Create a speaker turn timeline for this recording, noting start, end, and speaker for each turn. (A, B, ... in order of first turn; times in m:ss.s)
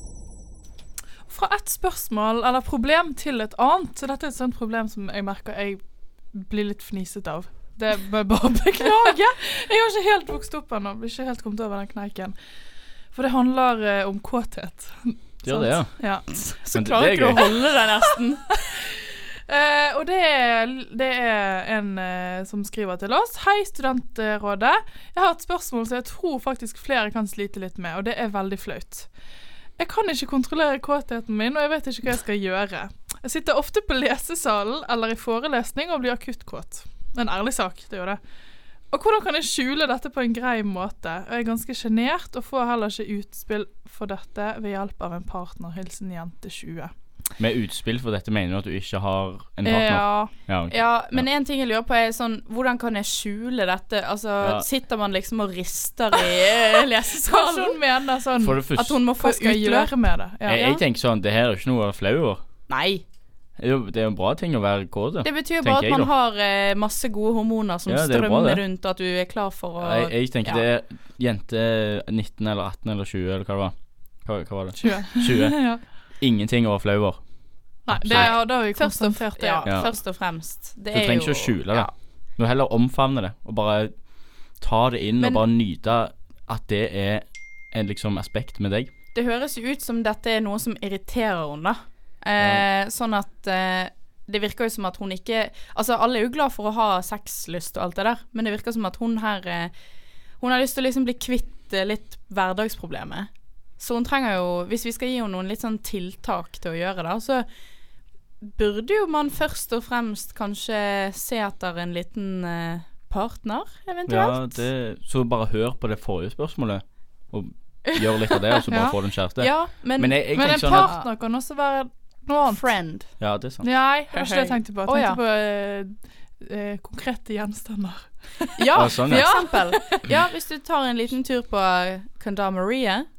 0:01.3-0:05.8 A
0:06.3-0:12.3 A
0:08.9-0:09.1 B
0:13.1-0:16.2 A
0:15.4-0:15.9 C
0:16.3-0:18.4 B
0:16.7-0:17.4 C
0:19.5-0:29.1 A
0:29.8-0:38.2 A
0:38.9-0:46.9 A
0:47.4-0:51.2 C
0:49.6-0:50.3 A
0:50.7-0:57.8 B
0:57.2-1:00.6 A
0:58.4-0:58.9 C
0:58.7-0:59.9 B
1:00.4-1:02.4 C
1:00.5-1:00.8 B
1:02.7-1:03.0 B
1:03.6-1:06.1 C
1:05.2-1:10.6 B
1:07.9-1:08.6 C
1:09.8-1:17.2 C
1:14.8-1:15.8 A
1:17.9-1:19.8 A
1:17.9-1:18.4 C
1:18.1-1:21.9 B
1:19.6-1:19.9 C
1:20.9-1:24.0 C
1:24.6-1:28.9 C
1:25.2-1:25.4 B
1:29.1-1:39.7 B
1:40.4-1:47.4 B
1:48.4-1:54.6 B
1:54.1-2:00.9 C
1:57.9-1:58.6 B
1:58.7-1:59.0 A
1:59.4-2:01.0 B
2:00.3-2:02.6 A
2:02.4-2:03.1 B
2:03.2-2:03.7 C
2:03.6-2:10.0 A
2:04.1-2:05.2 B
2:08.6-2:13.1 B
2:08.7-2:09.3 C